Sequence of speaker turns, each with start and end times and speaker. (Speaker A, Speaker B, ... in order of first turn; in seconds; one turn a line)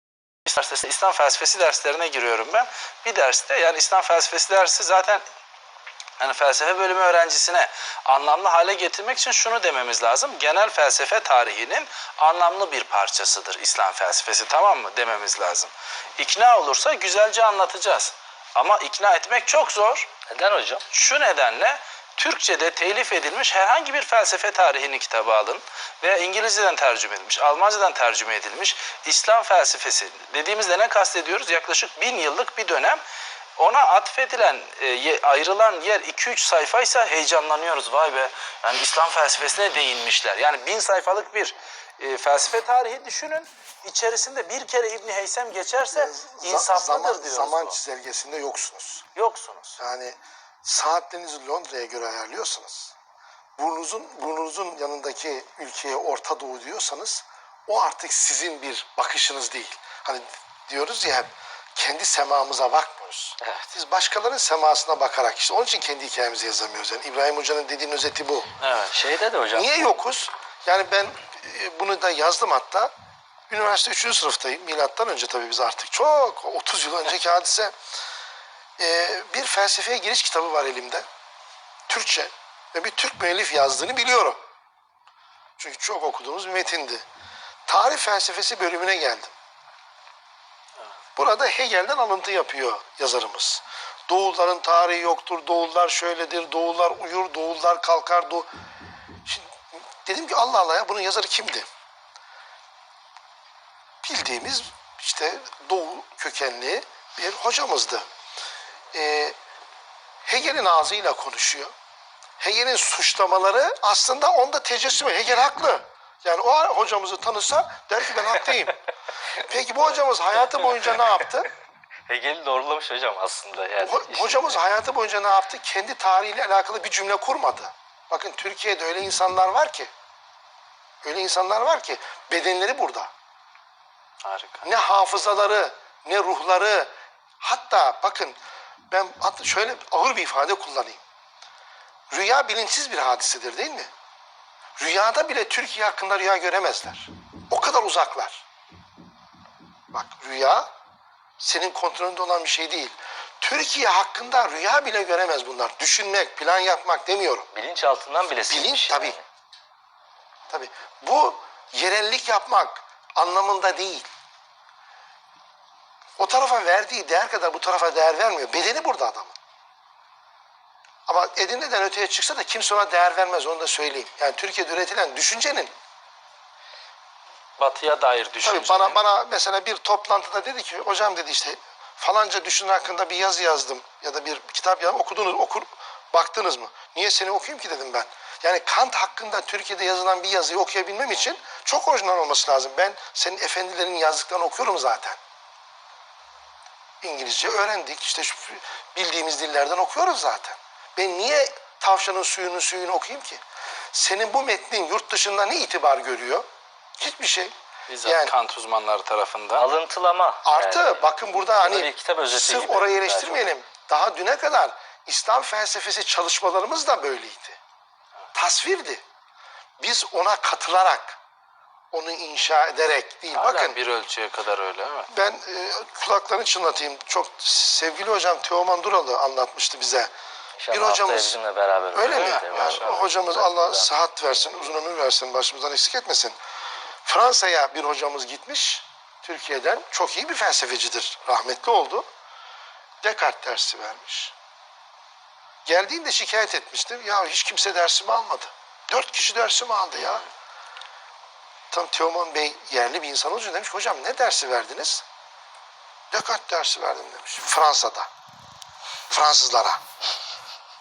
Speaker A: 0.5-5.2
Speaker A: 6.2-20.1
Speaker B: 20.3-20.9
Speaker A: 20.9-33.0
Speaker A: 33.6-47.8
Speaker C: 45.9-49.0
Speaker A: 49.1-49.8
Speaker C: 49.8-52.9
Speaker C: 53.6-68.5
Speaker B: 63.4-63.7
Speaker A: 68.6-69.0
Speaker B: 68.9-70.0
Speaker C: 69.5-72.9
Speaker C: 73.5-77.7
Speaker C: 78.8-81.0
Speaker C: 81.9-84.4
Speaker C: 85.6-87.0
Speaker C: 87.7-89.3
Speaker C: 91.2-98.5
Speaker C: 99.2-101.7
Speaker C: 104.0-108.1
Speaker C: 108.9-109.4
Speaker C: 110.2-111.7
Speaker C: 112.4-118.8
Speaker C: 119.4-121.5
Speaker B: 120.6-121.2
Speaker B: 122.1-124.6
Speaker C: 123.8-129.9
Speaker C: 131.0-133.1
Speaker A: 134.2-134.7
Speaker C: 134.6-138.4
Speaker C: 138.9-141.0
Speaker C: 142.1-143.9
Speaker C: 144.8-148.4
Speaker C: 149.9-150.7
Speaker C: 151.4-157.5
Speaker B: 157.5-159.2
Speaker C: 158.5-159.2
Speaker C: 160.5-164.1
Speaker C: 166.2-169.3
Speaker C: 171.1-175.7
Speaker A: 177.6-179.0
Speaker C: 178.4-195.2
Speaker C: 197.0-203.4
Speaker C: 203.9-206.4
Speaker C: 207.0-207.5
Speaker A: 207.9-209.7
Speaker C: 208.0-208.3
Speaker B: 209.6-213.5
Speaker C: 210.4-217.6
Speaker C: 218.3-219.0
Speaker C: 219.8-221.2
Speaker C: 221.9-223.8
Speaker A: 223.3-225.1
Speaker C: 225.1-230.1
Speaker B: 230.6-234.8
Speaker C: 230.7-231.4
Speaker C: 231.9-236.4
Speaker A: 232.1-233.0
Speaker C: 237.1-242.1
Speaker C: 243.0-244.3
Speaker C: 245.7-250.2
Speaker C: 251.7-255.0
Speaker C: 256.1-258.1
Speaker C: 259.1-259.8